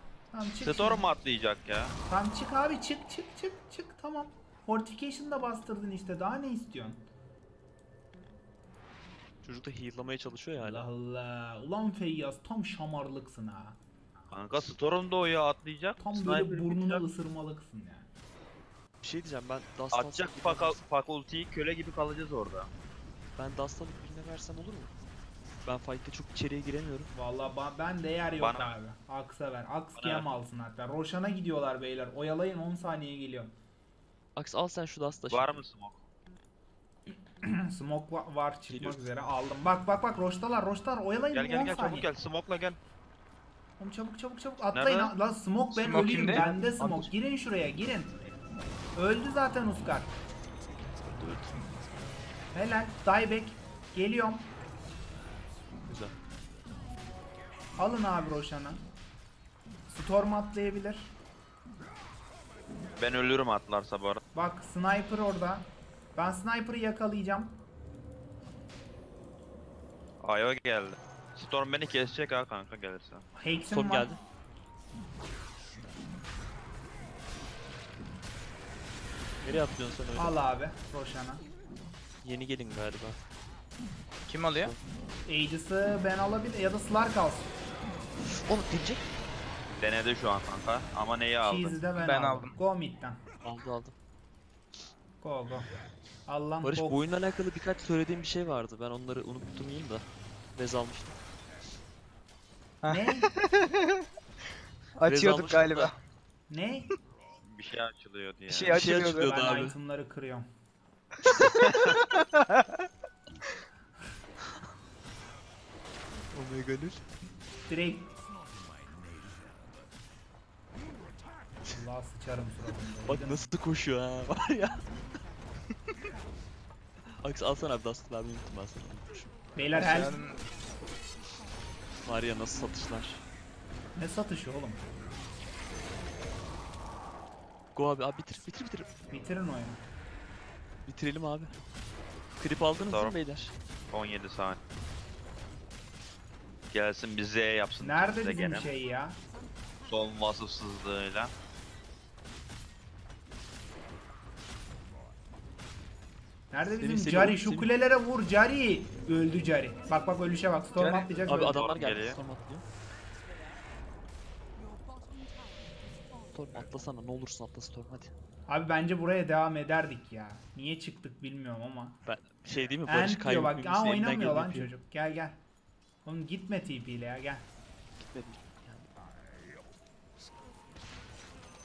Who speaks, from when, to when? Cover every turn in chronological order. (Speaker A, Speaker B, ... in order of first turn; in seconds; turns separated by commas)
Speaker A: 0.3-1.1, Speaker B: 0.6-2.0, Speaker A: 2.0-7.0, Speaker C: 9.4-10.9, Speaker A: 10.6-13.8, Speaker B: 14.3-17.0, Speaker A: 16.0-18.1, Speaker C: 19.0-20.8, Speaker B: 19.9-22.7, Speaker C: 23.4-24.9, Speaker C: 25.6-27.1, Speaker A: 27.1-33.5, Speaker B: 28.4-28.7, Speaker B: 30.0-30.3, Speaker C: 34.4-35.6, Speaker B: 35.3-36.0, Speaker A: 37.1-42.1, Speaker C: 38.7-39.1, Speaker B: 41.3-42.8, Speaker A: 43.8-48.1, Speaker B: 44.7-45.1, Speaker D: 45.7-46.5, Speaker C: 46.3-47.1, Speaker A: 49.0-50.2, Speaker C: 51.0-52.1, Speaker A: 52.5-54.5, Speaker C: 55.9-56.2, Speaker A: 57.8-58.8, Speaker A: 59.9-61.1, Speaker B: 63.0-64.2, Speaker A: 64.3-67.6, Speaker B: 70.2-73.2, Speaker A: 73.4-74.2, Speaker C: 73.7-74.2, Speaker C: 79.4-80.4, Speaker A: 80.2-81.5, Speaker C: 82.2-83.2, Speaker D: 84.3-84.7, Speaker C: 84.5-84.8, Speaker A: 85.2-87.6, Speaker C: 88.3-89.0, Speaker B: 89.8-91.8, Speaker A: 91.4-93.2, Speaker D: 92.0-92.6, Speaker C: 93.4-94.0, Speaker A: 95.2-95.7, Speaker A: 96.3-97.0, Speaker C: 96.6-101.2, Speaker D: 102.8-104.0, Speaker A: 102.9-103.3, Speaker D: 105.0-106.0, Speaker C: 105.0-105.9, Speaker A: 106.5-106.9, Speaker B: 107.5-109.0, Speaker D: 108.5-109.6, Speaker C: 108.5-109.8, Speaker A: 109.2-110.5, Speaker C: 111.3-111.7, Speaker D: 111.4-112.9, Speaker C: 116.3-117.1, Speaker A: 117.7-118.1, Speaker A: 121.7-123.5, Speaker C: 123.1-125.0, Speaker C: 127.1-129.3, Speaker A: 129.6-130.2, Speaker D: 129.7-130.5, Speaker C: 132.0-133.2, Speaker A: 133.9-134.8, Speaker C: 137.8-139.0, Speaker A: 139.1-139.8, Speaker C: 140.9-141.6, Speaker C: 142.4-143.5, Speaker B: 143.9-144.6, Speaker B: 146.7-148.7, Speaker A: 147.8-149.2, Speaker B: 149.9-151.3, Speaker A: 156.5-161.8, Speaker C: 156.8-157.7, Speaker D: 160.8-161.7, Speaker C: 161.2-162.6, Speaker B: 161.4-162.2, Speaker C: 166.3-168.1, Speaker A: 168.5-172.0, Speaker C: 172.1-174.7, Speaker A: 172.8-175.4, Speaker A: 176.1-177.5, Speaker C: 178.0-178.9